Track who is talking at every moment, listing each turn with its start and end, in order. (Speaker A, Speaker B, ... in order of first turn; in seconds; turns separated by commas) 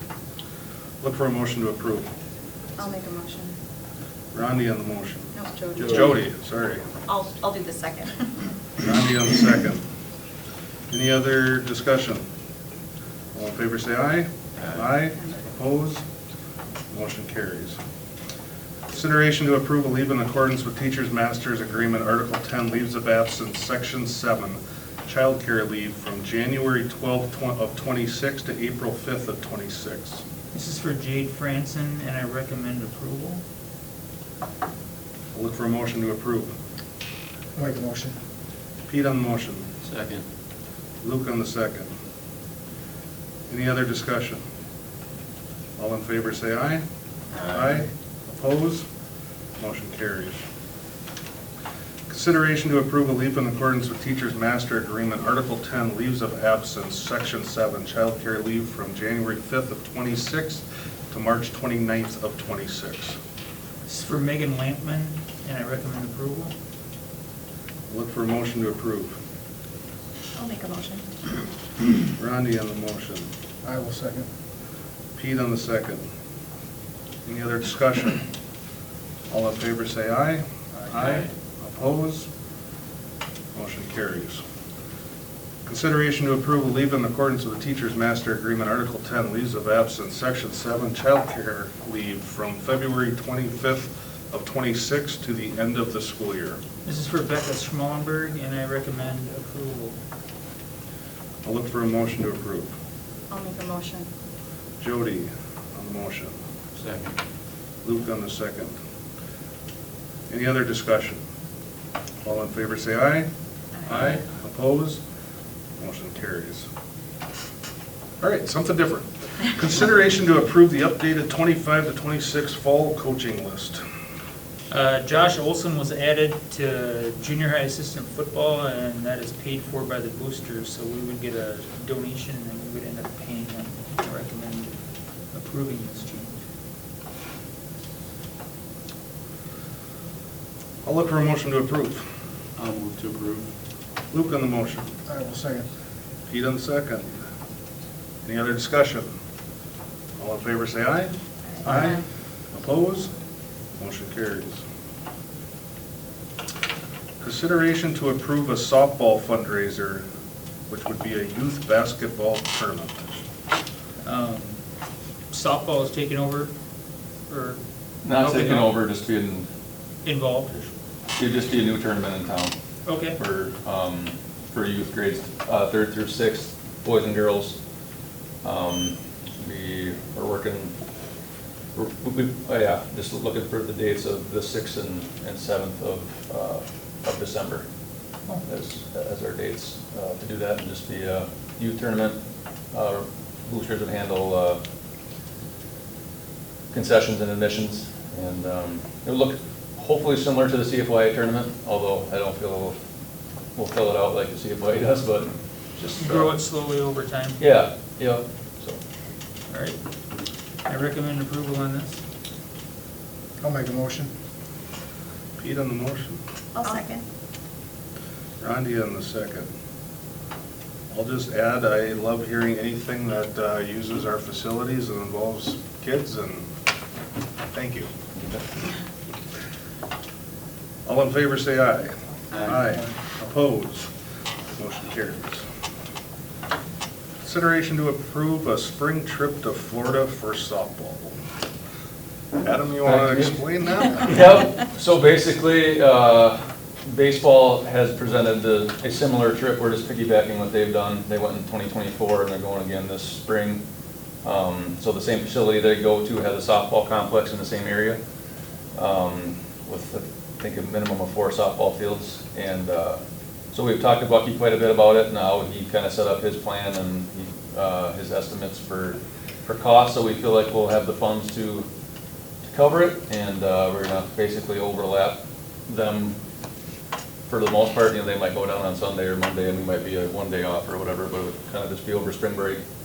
Speaker A: 1.0-2.1, Speaker B: 2.8-3.5, Speaker A: 4.3-6.8, Speaker B: 5.3-6.0, Speaker C: 5.8-6.1, Speaker B: 7.0-8.3, Speaker A: 8.8-9.8, Speaker A: 10.9-12.2, Speaker A: 13.3-16.0, Speaker A: 16.9-17.8, Speaker A: 18.9-30.2, Speaker D: 30.5-33.4, Speaker A: 35.3-36.5, Speaker E: 37.5-38.1, Speaker A: 38.9-39.7, Speaker C: 39.8-40.2, Speaker A: 41.0-41.9, Speaker A: 43.5-44.4, Speaker A: 45.8-46.8, Speaker A: 47.4-48.9, Speaker A: 49.6-50.4, Speaker A: 52.1-63.2, Speaker D: 63.9-66.5, Speaker A: 67.9-69.2, Speaker B: 70.3-71.1, Speaker A: 72.2-73.3, Speaker E: 73.6-74.3, Speaker A: 75.2-76.0, Speaker A: 77.2-78.2, Speaker A: 79.3-82.3, Speaker A: 83.5-84.4, Speaker A: 85.6-96.6, Speaker D: 96.8-100.0, Speaker A: 101.4-102.7, Speaker B: 103.3-104.1, Speaker A: 104.8-106.3, Speaker C: 106.8-107.2, Speaker A: 107.8-108.7, Speaker A: 110.3-111.2, Speaker A: 112.2-113.3, Speaker A: 113.8-115.0, Speaker A: 115.8-116.7, Speaker A: 118.2-123.8, Speaker D: 124.7-134.7, Speaker D: 135.3-136.4, Speaker A: 140.8-142.0, Speaker C: 142.6-143.5, Speaker A: 144.1-144.9, Speaker E: 145.1-145.6, Speaker A: 146.3-147.1, Speaker A: 148.2-149.1, Speaker A: 150.2-151.1, Speaker A: 151.6-153.1, Speaker E: 151.7-151.9, Speaker B: 151.7-152.0, Speaker A: 153.8-154.6, Speaker A: 157.2-160.0, Speaker A: 160.7-163.2, Speaker D: 164.0-164.6, Speaker D: 165.3-166.5, Speaker D: 167.3-167.6, Speaker F: 168.0-169.5, Speaker D: 168.1-168.8, Speaker D: 170.0-170.7, Speaker F: 171.2-172.5, Speaker D: 172.8-173.2, Speaker F: 173.1-177.6, Speaker F: 178.4-180.7, Speaker F: 181.7-187.6, Speaker F: 188.4-192.2, Speaker F: 192.7-194.6, Speaker F: 196.7-202.8, Speaker F: 203.6-206.3, Speaker D: 206.0-207.4, Speaker F: 207.4-208.8, Speaker D: 209.5-209.8, Speaker D: 210.7-212.0, Speaker E: 213.4-214.1, Speaker A: 215.4-216.2, Speaker B: 216.6-217.0, Speaker A: 218.4-219.5, Speaker A: 220.9-226.5, Speaker A: 227.5-227.9, Speaker A: 230.8-233.9, Speaker A: 234.6-235.4, Speaker A: 237.2-241.2, Speaker A: 242.4-244.2, Speaker F: 242.8-253.6, Speaker F: 254.2-258.0, Speaker F: 258.7-263.0, Speaker F: 263.5-271.7, Speaker F: 272.4-276.1, Speaker F: 277.3-282.6